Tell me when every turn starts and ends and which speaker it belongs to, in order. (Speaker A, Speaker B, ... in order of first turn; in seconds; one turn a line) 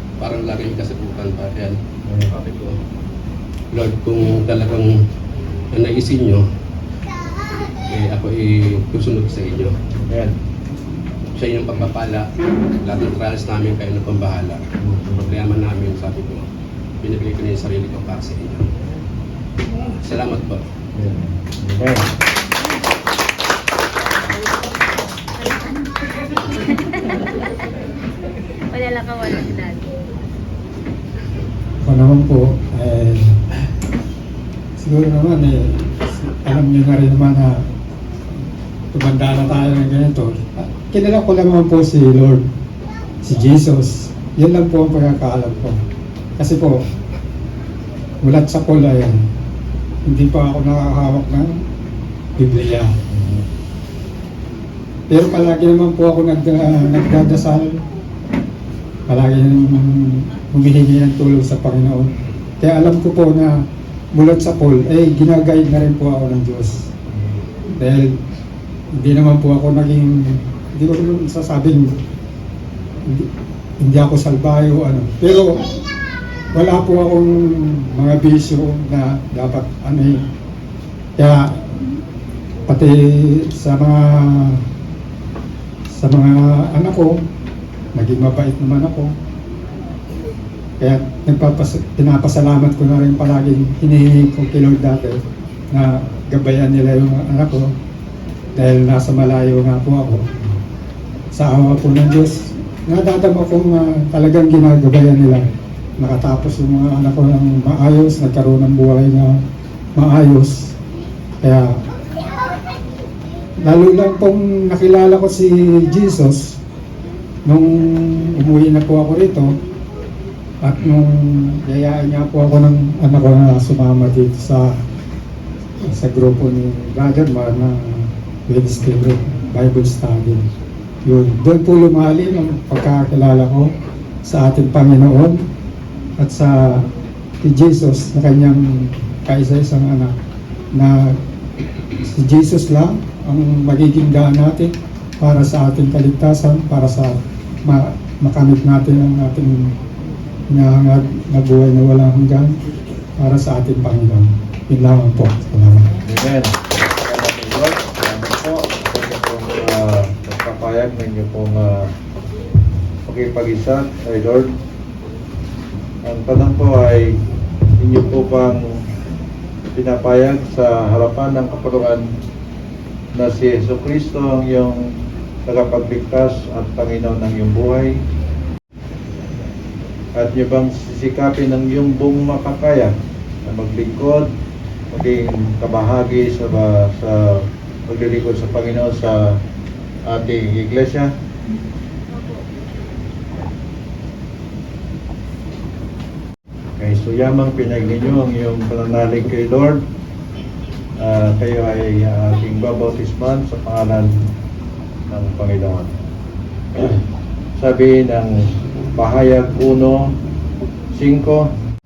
Speaker A: 0.2-1.8
Speaker A: 2.3-2.8
Speaker A: 3.7-5.0
Speaker A: 5.7-6.5
Speaker A: 7.9-9.8
Speaker B: 10.1-10.4
Speaker A: 11.3-12.3
Speaker A: 12.8-16.5
Speaker B: 14.8-15.2
Speaker A: 17.0-18.7
Speaker A: 19.8-20.6
Speaker B: 20.9-22.1
Speaker C: 26.5-27.2
Speaker C: 28.7-29.9
Speaker D: 31.8-33.4
Speaker D: 34.8-37.6
Speaker D: 38.9-42.5
Speaker D: 43.2-45.8
Speaker D: 46.4-46.8
Speaker D: 48.2-49.2
Speaker D: 50.1-51.6
Speaker D: 52.4-52.9
Speaker B: 53.1-53.5
Speaker D: 55.1-57.8
Speaker D: 59.1-63.6
Speaker D: 64.2-66.9
Speaker D: 67.8-68.2
Speaker D: 68.9-71.9
Speaker D: 73.8-75.7
Speaker D: 76.5-80.2
Speaker D: 81.2-81.6
Speaker D: 82.7-84.6
Speaker D: 85.9-87.2
Speaker D: 87.9-89.1
Speaker D: 90.8-97.7
Speaker D: 98.6-100.2
Speaker D: 101.3-105.5
Speaker D: 106.0-109.4
Speaker D: 110.0-110.8
Speaker D: 111.4-111.8
Speaker D: 113.6-116.6
Speaker D: 117.5-119.5
Speaker D: 120.6-124.8
Speaker D: 125.8-130.4
Speaker D: 131.1-133.7
Speaker D: 134.2-135.4
Speaker D: 136.2-136.9
Speaker D: 137.4-140.2
Speaker D: 140.7-141.2
Speaker D: 142.0-149.7
Speaker D: 150.5-152.6
Speaker D: 153.2-155.9
Speaker B: 156.0-162.0
Speaker B: 163.1-164.6
Speaker B: 166.0-167.2
Speaker B: 167.8-168.8
Speaker B: 169.7-172.1
Speaker B: 173.1-178.0
Speaker B: 180.2-182.9
Speaker B: 183.4-184.3
Speaker B: 184.9-189.4
Speaker B: 190.1-191.1
Speaker B: 196.8-199.8
Speaker B: 201.0-204.1
Speaker B: 205.1-205.9
Speaker B: 206.7-207.0
Speaker B: 207.6-210.1
Speaker B: 210.9-211.5